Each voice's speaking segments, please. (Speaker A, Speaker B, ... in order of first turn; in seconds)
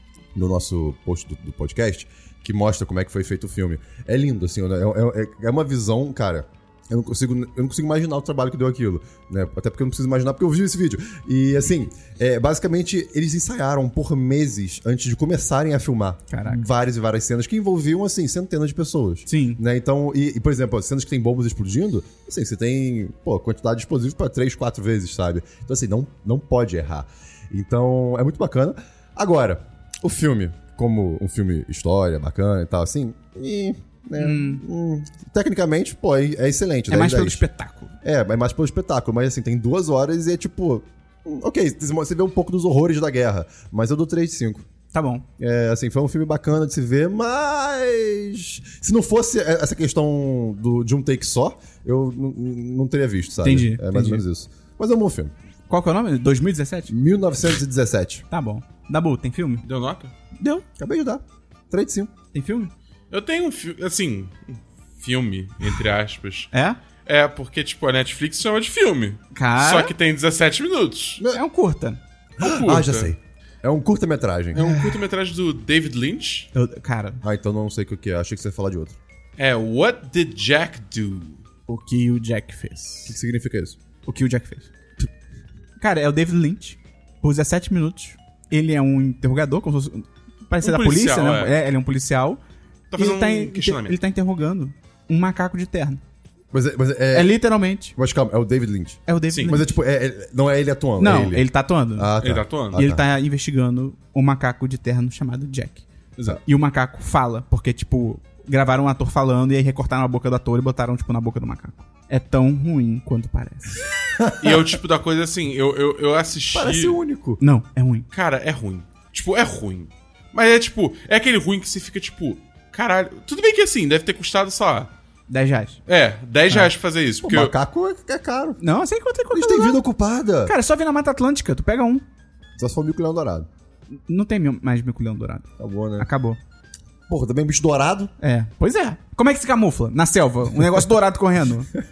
Speaker A: 0.3-37.4, 38.0-44.6, 45.4-55.3, 56.9-58.2, 60.8-62.1, 72.4-74.6, 77.2-79.0, 83.0-83.8, 96.5-97.3, 97.9-101.4, 102.0-103.0, 114.2-114.6, 116.5-117.4, 127.2-128.6, 129.3-130.5, 132.6-133.5, 135.6-136.1, 137.1-138.1
Speaker B: 16.3-16.6, 19.3-19.6, 34.2-34.6, 36.9-37.9, 44.9-45.2, 53.4-54.2, 55.7-56.9, 58.3-59.6, 60.4-60.6, 62.3-62.7, 66.5-66.8, 69.3-69.9, 71.3-72.0, 74.5-75.0, 76.5-77.2, 81.7-83.1, 84.0-84.7, 85.8-92.4, 93.0-96.0, 97.1-97.9, 99.1-99.7, 101.0-102.1, 102.7-105.8, 106.4-113.8, 117.4-118.1, 125.3-125.8, 128.6-129.8, 130.4-132.0, 134.1-136.4, 138.2-141.7
Speaker C: 59.6-60.1, 63.1-66.5, 67.0-71.2, 72.4-73.1, 74.5-76.5, 79.4-81.4, 90.6-91.5, 92.9-94.0, 99.3-99.5, 102.2-102.8, 114.4-117.0, 118.1-124.9, 125.9-127.5